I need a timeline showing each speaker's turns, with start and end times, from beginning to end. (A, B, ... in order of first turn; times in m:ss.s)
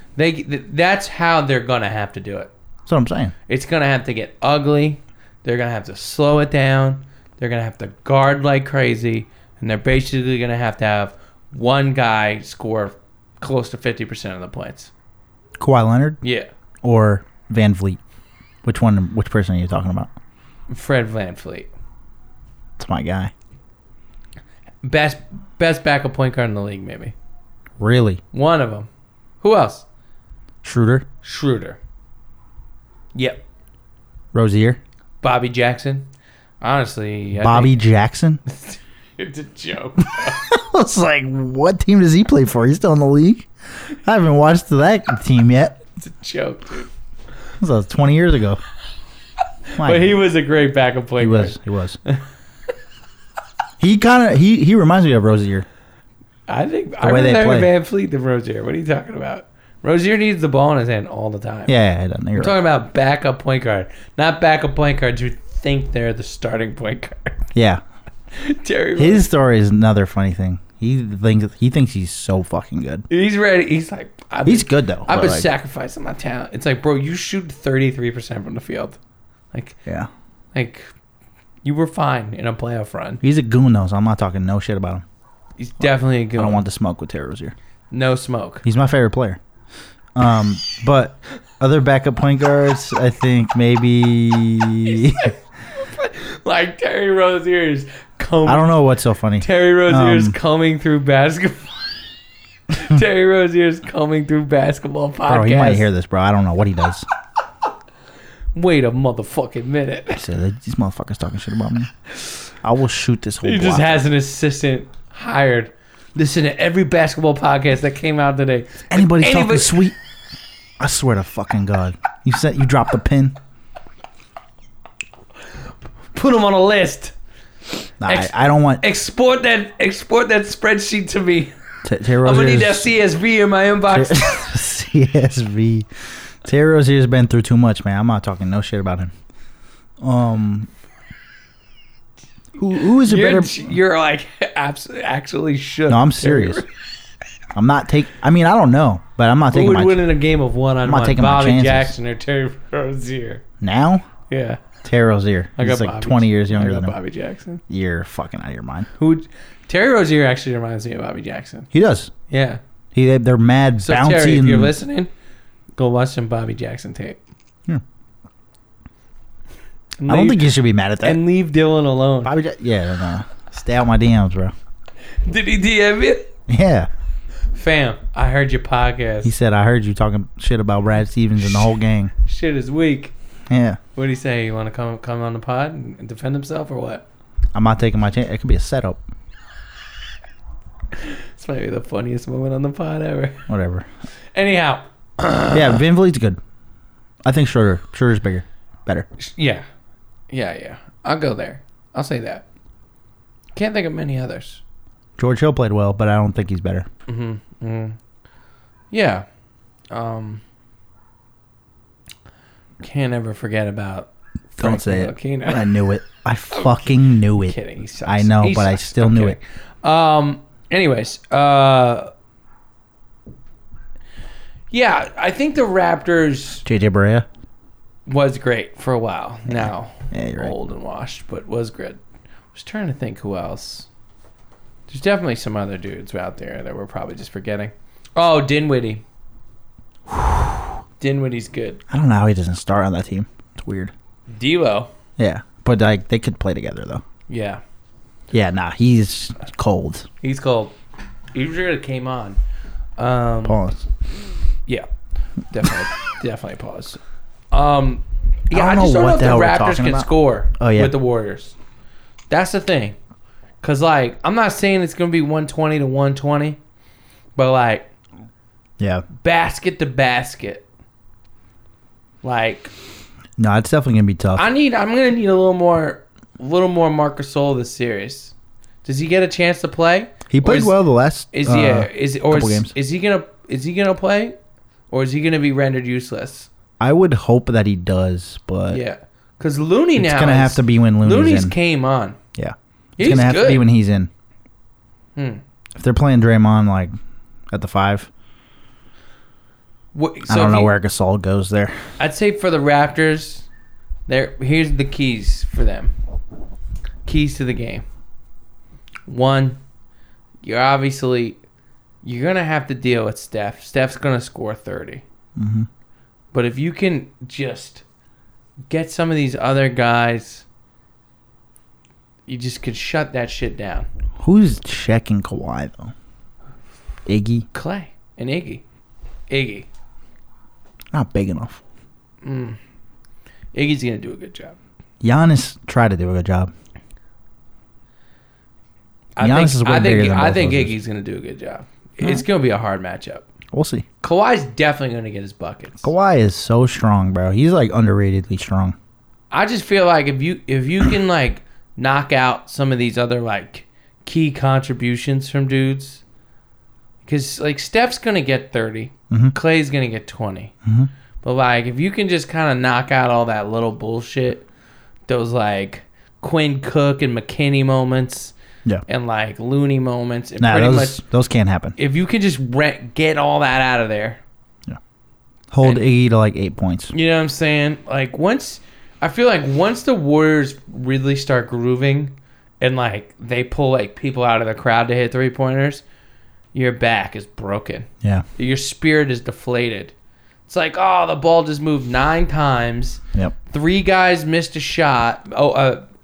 0:00.2-0:02.5 A
0:02.9-0:03.3 B
0:03.5-0:14.9 A
0:15.6-0:16.2 B
0:16.2-0:16.5 A
0:16.8-0:18.0 B
0:18.6-0:20.1 B
0:20.7-0:21.7 A
0:22.8-0:23.3 B
0:24.8-0:27.1 A
0:27.8-0:28.2 B
0:28.3-0:28.9 A
0:29.4-0:29.8 A
0:30.6-0:31.0 B
0:31.2-0:31.8 A
0:33.1-0:33.4 A
0:34.3-0:34.8 B
0:35.2-0:36.1 A
0:36.6-0:37.8 A
0:37.4-0:38.4 B
0:38.5-0:40.4 A
0:40.4-0:43.5 B
0:44.0-0:45.8 B
0:46.0-0:46.9 A
0:47.6-0:48.6 B
0:49.7-0:52.2 A
0:49.8-0:50.2 B
0:51.2-0:52.0 B
0:53.8-0:55.6 B
0:56.5-1:01.7 A
0:57.0-0:57.7 B
1:01.7-1:02.5 B
1:02.4-1:07.4 A
1:07.5-1:07.8 B
1:08.3-1:09.2 A
1:09.0-1:13.0 B
1:13.1-1:19.0 A
1:14.4-1:15.5 B
1:19.5-1:19.8 A
1:20.5-1:20.9 A
1:21.6-1:23.2 A
1:23.2-1:25.0 B
1:25.6-1:26.6 A
1:26.4-1:27.5 B
1:27.9-1:28.6 A
1:28.6-1:29.4 B
1:30.1-1:35.3 B
1:34.8-1:38.8 A
1:38.4-1:40.4 B
1:39.4-1:41.8 A
1:42.7-1:45.9 A
1:45.3-1:47.0 B
1:48.5-1:50.2 A
1:50.1-1:51.9 B
1:52.6-1:54.0 B
1:53.4-1:59.8 A
1:58.9-1:59.9 B
2:00.8-2:03.4 B
2:06.1-2:07.1 A
2:08.0-2:08.8 B
2:08.0-2:11.5 A
2:11.8-2:12.9 B
2:12.2-2:14.4 A
2:13.9-2:15.9 B
2:16.4-2:19.1 B
2:20.0-2:20.7 B
2:22.6-2:23.7 B
2:22.8-2:26.7 A
2:25.9-2:26.6 B
2:27.5-2:30.0 B
2:29.5-2:33.4 A
2:30.8-2:31.9 B
2:33.6-2:34.0 B
2:34.3-2:34.6 A
2:34.8-2:37.0 B
2:35.6-2:37.6 A
2:37.7-2:38.9 B
2:39.0-2:41.7 A
2:41.7-2:42.1 B
2:42.3-2:42.6 A
2:42.9-2:44.8 B
2:43.8-2:45.1 A
2:45.8-2:47.2 A
2:50.0-2:52.3 A
2:50.1-2:51.2 B
2:52.2-2:54.5 B
2:55.2-2:56.3 A
2:56.5-2:56.9 B
2:57.5-2:59.3 A
2:59.2-3:02.1 B
3:02.2-3:03.1 A
3:03.5-3:03.8 B
3:03.9-3:07.0 A
3:07.5-3:09.0 B
3:11.0-3:13.4 A
3:13.5-3:13.9 B
3:14.3-3:15.8 A
3:15.5-3:16.4 B
3:17.2-3:19.1 B
3:19.2-3:19.6 A
3:20.3-3:22.4 A
3:23.5-3:24.6 A
3:25.2-3:26.9 B
3:27.1-3:28.0 A
3:28.9-3:29.2 A
3:29.9-3:30.4 A
3:32.8-3:35.8 A
3:34.6-3:39.4 B
3:36.5-3:42.1 A
3:44.7-3:46.6 A
3:46.6-3:47.3 B
3:48.1-3:52.0 A
3:49.5-3:50.5 B
3:52.5-3:53.9 A
3:54.9-3:59.0 A
4:00.1-4:00.6 B
4:01.0-4:01.8 A
4:01.9-4:03.9 B
4:04.3-4:04.9 A
4:05.2-4:07.0 B
4:07.3-4:07.6 A
4:08.3-4:10.1 B
4:10.2-4:10.7 A
4:11.3-4:12.4 A
4:13.0-4:13.6 A
4:13.4-4:13.9 B
4:15.5-4:17.0 A
4:17.5-4:21.6 A
4:18.5-4:20.9 B
4:22.3-4:23.0 A
4:23.6-4:26.6 A
4:27.4-4:27.9 A
4:28.8-4:29.0 B
4:29.2-4:30.6 A
4:32.2-4:32.7 A
4:33.4-4:34.4 B
4:34.4-4:38.3 A
4:38.8-4:40.7 A
4:40.3-4:42.7 B
4:41.3-4:44.4 A
4:44.9-4:46.5 A
4:46.8-4:48.8 B
4:48.7-4:52.2 A
4:50.0-4:51.6 B
4:52.4-4:54.1 B
4:53.0-4:53.6 A
4:55.2-4:55.4 A
4:55.8-4:56.9 B
4:57.5-4:58.1 B
4:59.9-5:00.7 A
5:00.3-5:01.8 B
5:02.0-5:03.4 A
5:04.1-5:05.9 A
5:07.0-5:07.8 A
5:09.1-5:09.6 A
5:10.4-5:11.4 A
5:12.0-5:15.0 A
5:15.4-5:15.7 B
5:16.3-5:17.8 A
5:18.7-5:20.4 A
5:22.3-5:23.9 A
5:24.2-5:25.9 B
5:27.0-5:27.5 B
5:27.5-5:28.6 A
5:29.3-5:29.7 A
5:30.9-5:31.6 B
5:32.2-5:32.6 A
5:33.5-5:34.6 A
5:35.0-5:36.5 B
5:39.2-5:43.3 A
5:39.2-5:40.7 B
5:43.5-5:43.8 B
5:44.0-5:45.9 A
5:45.8-5:48.7 B
5:49.3-5:56.0 A
5:57.0-6:00.5 A
6:00.6-6:00.9 B
6:01.2-6:04.5 A
6:05.1-6:08.3 A
6:08.9-6:11.0 A
6:10.4-6:11.8 B
6:11.8-6:14.2 A
6:15.5-6:16.9 B
6:16.9-6:25.8 A
6:26.5-6:29.9 A
6:30.5-6:35.8 A